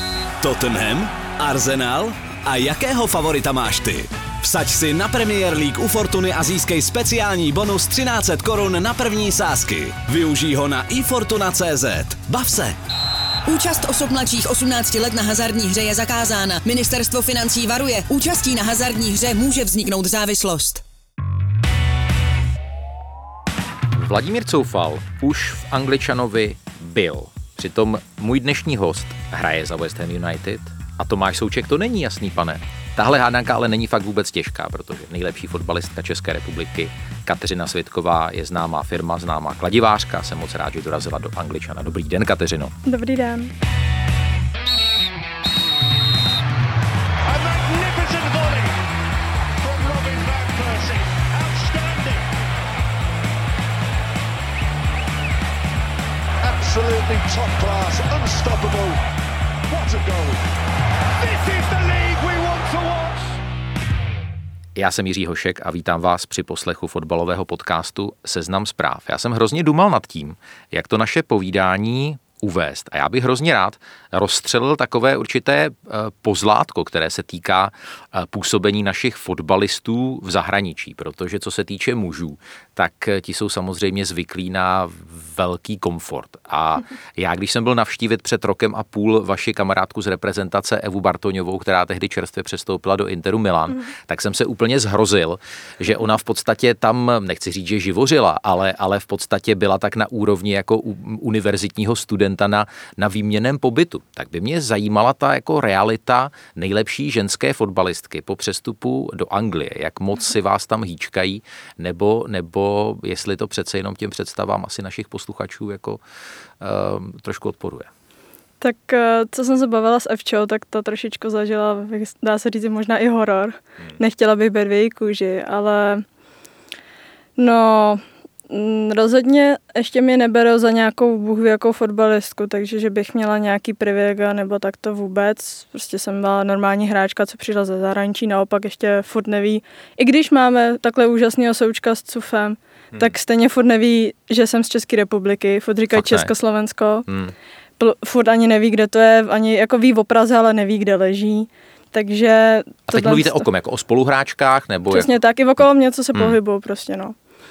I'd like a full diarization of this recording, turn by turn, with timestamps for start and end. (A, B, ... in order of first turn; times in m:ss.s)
0:00.4-0:12.8 A
0:13.4-0:20.8 B
0:23.9-0:42.7 C
0:42.8-0:43.5 D
0:47.2-0:48.8 E
0:49.6-0:52.2 E
0:56.4-0:59.0 E
0:59.7-1:00.4 E
1:01.2-1:03.4 E
1:04.8-1:56.0 C
1:56.6-1:57.9 C
1:58.6-2:06.0 D
2:07.4-2:27.0 D
2:25.9-2:26.3 C
2:27.1-2:27.3 C
2:27.8-2:33.4 D
2:32.9-2:35.1 C
2:34.9-2:37.1 D